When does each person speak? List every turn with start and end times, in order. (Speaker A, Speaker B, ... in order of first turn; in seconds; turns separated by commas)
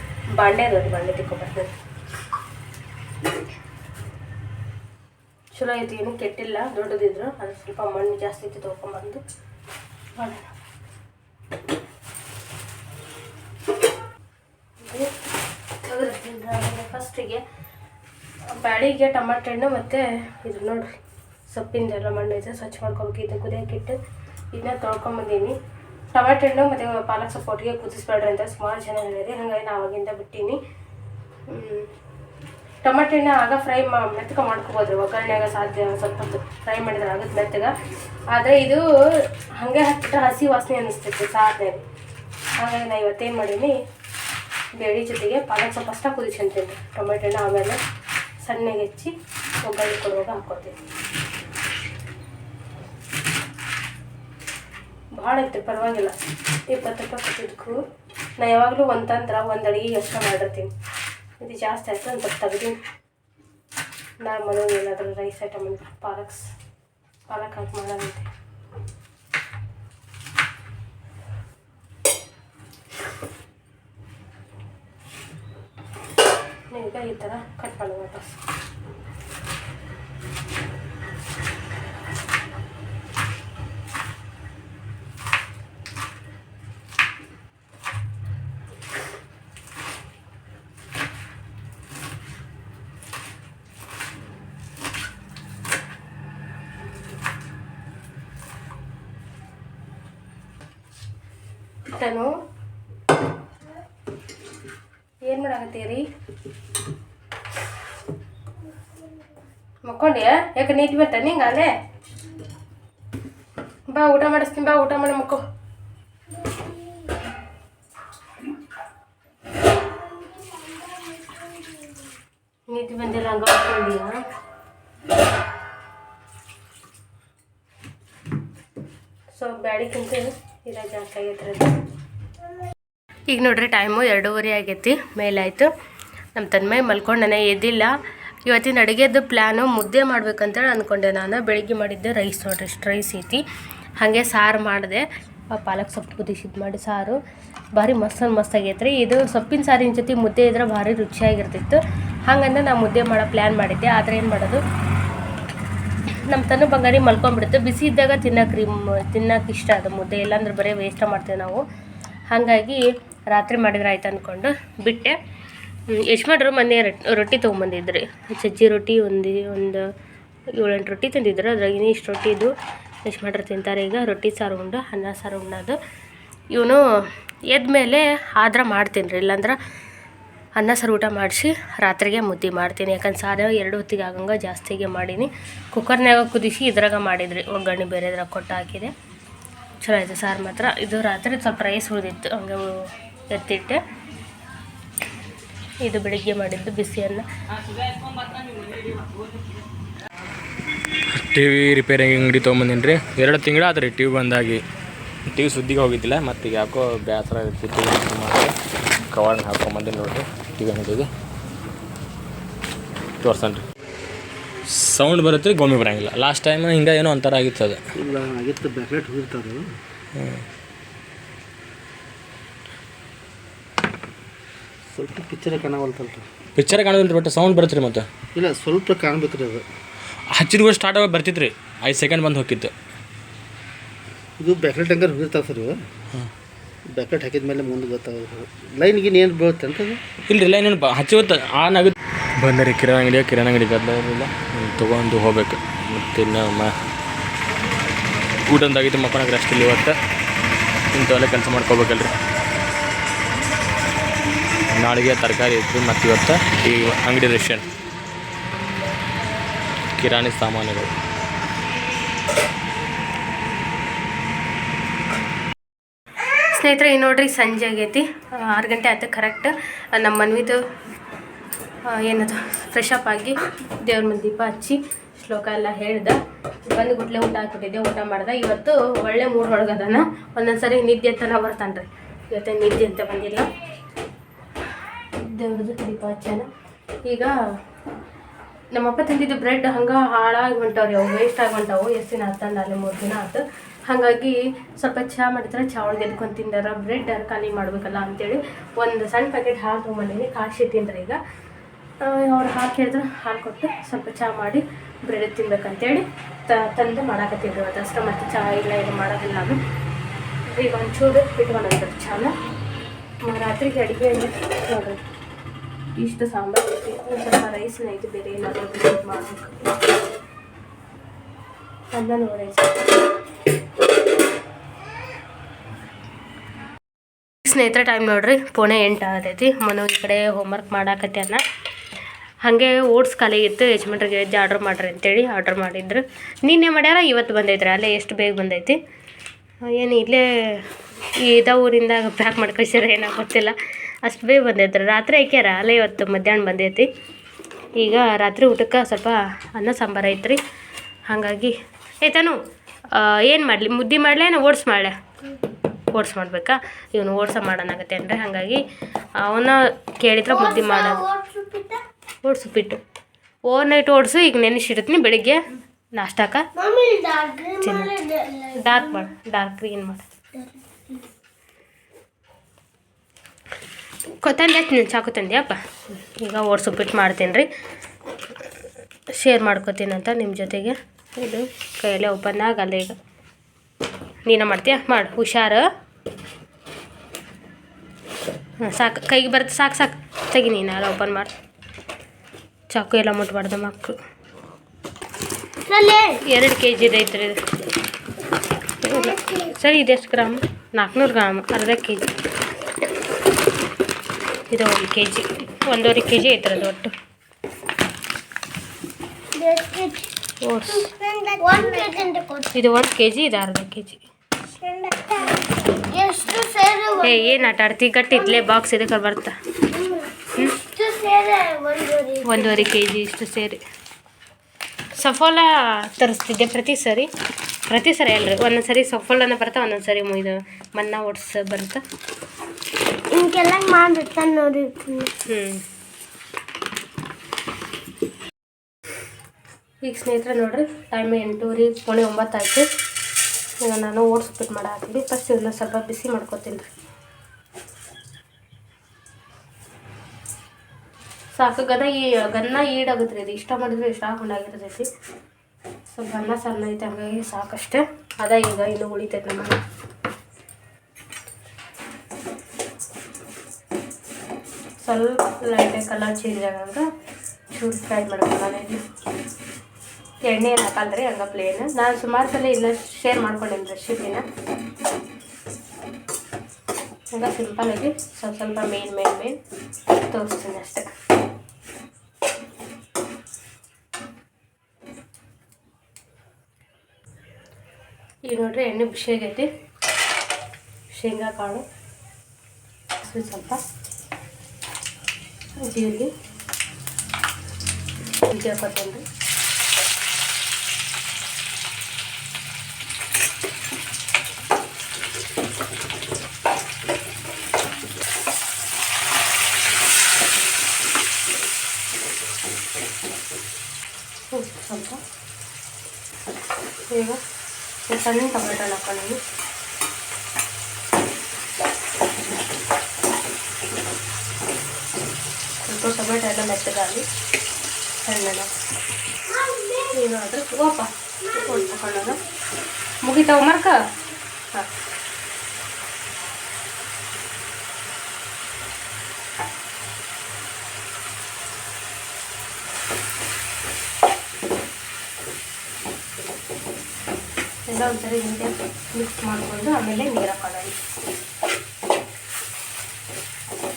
Speaker A: 0.4-1.7, Speaker A: 5.5-9.2, Speaker A: 10.2-10.4, Speaker A: 14.8-15.1, Speaker A: 15.8-17.4, Speaker A: 18.5-20.9, Speaker A: 21.5-24.0, Speaker A: 24.5-25.5, Speaker A: 26.1-30.6, Speaker A: 31.5-31.9, Speaker A: 32.8-37.7, Speaker A: 38.3-38.8, Speaker A: 39.6-41.8, Speaker A: 42.6-43.7, Speaker A: 44.8-47.8, Speaker A: 48.4-49.1, Speaker A: 49.6-50.7, Speaker A: 55.1-56.1, Speaker A: 56.7-57.8, Speaker A: 58.4-60.7, Speaker A: 61.4-62.8, Speaker A: 64.2-66.5, Speaker A: 67.3-68.3, Speaker A: 76.7-78.4, Speaker A: 101.9-102.3, Speaker A: 105.2-106.0, Speaker A: 109.8-111.7, Speaker A: 113.9-115.4, Speaker B: 116.4-116.7, Speaker B: 119.6-121.9, Speaker A: 122.7-124.1, Speaker A: 129.3-131.7, Speaker A: 133.3-135.7, Speaker A: 136.3-137.9, Speaker A: 138.5-143.4, Speaker A: 144.0-147.2, Speaker A: 147.8-154.6, Speaker A: 156.3-161.6, Speaker A: 162.3-165.2, Speaker A: 165.9-169.9, Speaker A: 170.6-172.5, Speaker A: 173.1-175.8, Speaker A: 176.5-176.8, Speaker A: 177.5-179.6, Speaker A: 180.6-188.9, Speaker A: 189.8-193.8, Speaker A: 195.8-197.2, Speaker C: 201.1-204.6, Speaker C: 205.3-208.5, Speaker C: 209.1-211.1, Speaker C: 213.2-213.6, Speaker C: 214.7-217.8, Speaker D: 218.0-219.6, Speaker C: 220.2-220.4, Speaker D: 224.9-226.2, Speaker C: 226.6-228.1, Speaker D: 228.3-229.6, Speaker C: 230.3-232.7, Speaker D: 234.4-235.8, Speaker D: 236.9-240.0, Speaker C: 240.3-246.7, Speaker C: 248.5-249.9, Speaker C: 250.9-252.1, Speaker C: 254.7-257.6, Speaker C: 260.0-260.9, Speaker A: 266.5-270.6, Speaker A: 271.9-283.5, Speaker A: 285.2-286.5, Speaker A: 287.0-287.3, Speaker A: 288.7-301.2, Speaker A: 302.0-309.6, Speaker A: 310.5-312.3, Speaker A: 313.2-315.0, Speaker A: 315.9-319.6, Speaker A: 321.9-323.0, Speaker A: 327.4-331.4, Speaker A: 332.4-338.8, Speaker A: 339.6-340.7, Speaker A: 341.2-346.9, Speaker A: 347.8-350.4, Speaker A: 351.1-352.4, Speaker A: 352.9-354.9, Speaker A: 355.9-358.6, Speaker A: 359.2-361.0, Speaker B: 360.3-361.8, Speaker A: 362.2-362.8, Speaker A: 363.4-365.4, Speaker A: 365.9-366.4, Speaker B: 366.5-369.1, Speaker A: 367.6-367.9, Speaker A: 368.6-370.0, Speaker B: 370.3-371.0, Speaker A: 374.2-377.5, Speaker A: 379.1-382.9, Speaker A: 384.2-385.6, Speaker A: 388.6-391.3, Speaker A: 392.7-394.0, Speaker B: 395.7-396.2, Speaker A: 396.2-397.4, Speaker A: 398.8-402.1, Speaker B: 398.9-399.5, Speaker A: 404.5-406.9, Speaker B: 409.4-410.1, Speaker A: 410.4-410.9, Speaker B: 410.6-412.5, Speaker A: 411.6-411.9, Speaker A: 412.5-414.0, Speaker B: 414.5-417.5, Speaker A: 417.0-419.3, Speaker B: 418.1-418.5, Speaker B: 419.7-422.8, Speaker A: 422.2-423.6, Speaker A: 425.0-427.1, Speaker A: 427.7-431.8, Speaker B: 433.1-435.1, Speaker A: 435.2-435.6, Speaker A: 439.8-442.6, Speaker A: 443.6-446.6, Speaker A: 451.3-454.9, Speaker A: 455.9-459.6, Speaker A: 464.8-466.8, Speaker A: 467.5-468.8, Speaker A: 470.2-474.2, Speaker A: 477.1-479.4, Speaker A: 480.1-480.9, Speaker A: 488.3-489.5, Speaker A: 490.9-491.6, Speaker A: 493.0-493.6, Speaker A: 495.7-496.1, Speaker A: 498.3-499.0, Speaker A: 514.3-515.0, Speaker A: 516.9-517.2, Speaker A: 517.9-519.2, Speaker A: 525.6-527.0, Speaker A: 528.0-528.5, Speaker B: 529.3-529.9, Speaker A: 529.9-532.2, Speaker B: 531.2-532.1, Speaker A: 533.0-533.8, Speaker A: 547.7-550.8